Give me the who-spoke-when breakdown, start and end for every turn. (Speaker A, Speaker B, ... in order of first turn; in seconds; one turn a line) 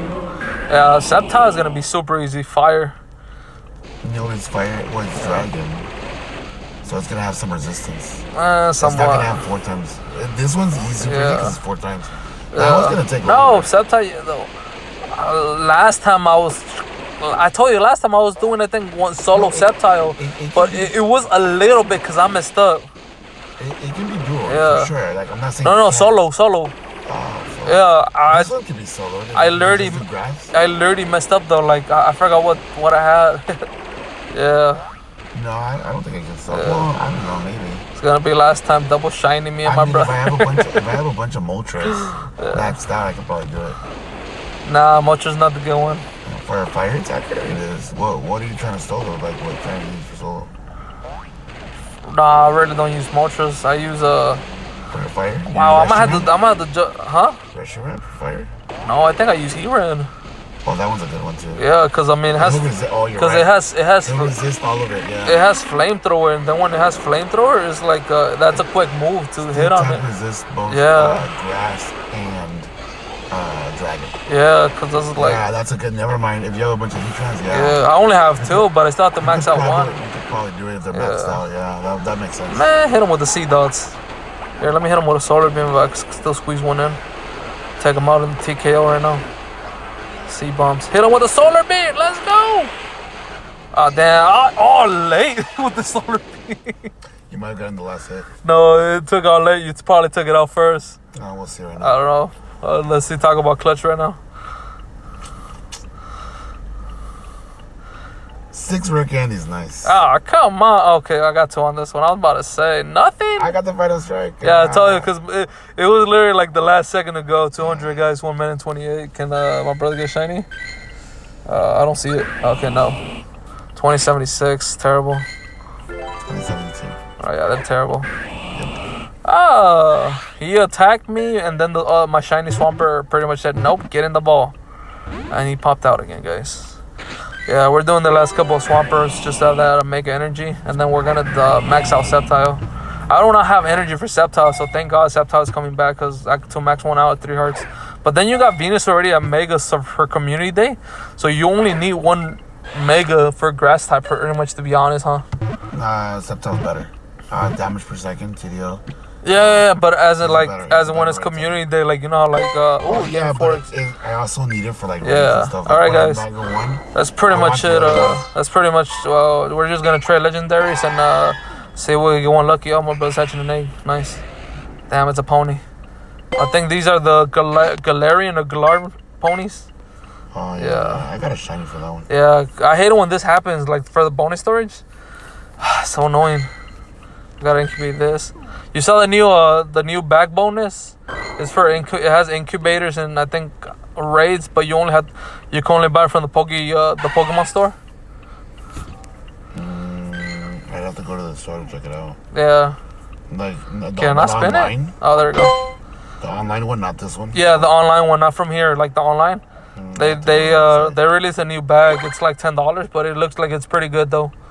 Speaker A: 0.7-3.0
Speaker B: 4.0-5.9
Speaker B: 6.8-8.2
Speaker A: 8.3-9.4
Speaker B: 8.8-13.7
Speaker A: 11.0-11.6
Speaker A: 12.5-14.5
Speaker A: 15.0-22.9
Speaker B: 19.3-21.0
Speaker B: 23.6-26.2
Speaker A: 24.5-24.9
Speaker A: 25.6-26.7
Speaker B: 27.1-30.5
Speaker A: 27.6-28.5
Speaker A: 29.3-33.7
Speaker A: 34.3-34.8
Speaker B: 35.3-37.9
Speaker A: 36.5-36.9
Speaker A: 38.0-40.8
Speaker B: 39.6-43.8
Speaker A: 42.0-42.7
Speaker A: 44.6-46.1
Speaker B: 46.2-50.5
Speaker A: 52.0-54.4
Speaker B: 54.9-56.3
Speaker A: 55.5-57.4
Speaker B: 57.5-58.5
Speaker A: 58.8-60.1
Speaker B: 60.6-61.6
Speaker A: 61.6-64.4
Speaker B: 62.4-65.4
Speaker A: 65.2-70.1
Speaker B: 69.4-72.7
Speaker A: 70.7-71.3
Speaker B: 73.3-74.2
Speaker A: 74.3-75.4
Speaker B: 75.2-78.7
Speaker A: 77.5-80.0
Speaker B: 79.2-82.7
Speaker A: 80.9-81.4
Speaker A: 82.5-84.0
Speaker A: 84.6-87.0
Speaker A: 87.8-89.2
Speaker A: 90.3-92.7
Speaker A: 93.7-96.9
Speaker B: 97.3-98.3
Speaker A: 98.4-101.0
Speaker B: 101.1-102.0
Speaker A: 101.8-104.2
Speaker B: 108.5-110.0
Speaker A: 109.8-113.6
Speaker B: 113.4-115.1
Speaker A: 114.4-120.5
Speaker B: 117.6-118.0
Speaker A: 121.5-123.0
Speaker A: 123.8-125.3
Speaker B: 126.3-127.0
Speaker A: 127.2-128.1
Speaker A: 129.2-134.6
Speaker A: 135.3-136.8
Speaker A: 137.5-155.2
Speaker B: 155.7-161.6
Speaker A: 159.2-163.7
Speaker B: 162.8-168.2
Speaker A: 165.0-166.3
Speaker A: 166.9-174.2
Speaker A: 174.9-175.6
Speaker A: 176.4-179.7
Speaker B: 180.3-182.1
Speaker A: 180.6-181.1
Speaker A: 182.1-184.8
Speaker A: 185.6-186.5
Speaker A: 187.4-197.8
Speaker B: 199.5-202.2
Speaker A: 202.3-202.8
Speaker B: 203.3-204.9
Speaker A: 203.9-205.5
Speaker B: 206.2-207.7
Speaker A: 207.3-209.4
Speaker B: 209.8-211.0
Speaker A: 209.9-214.3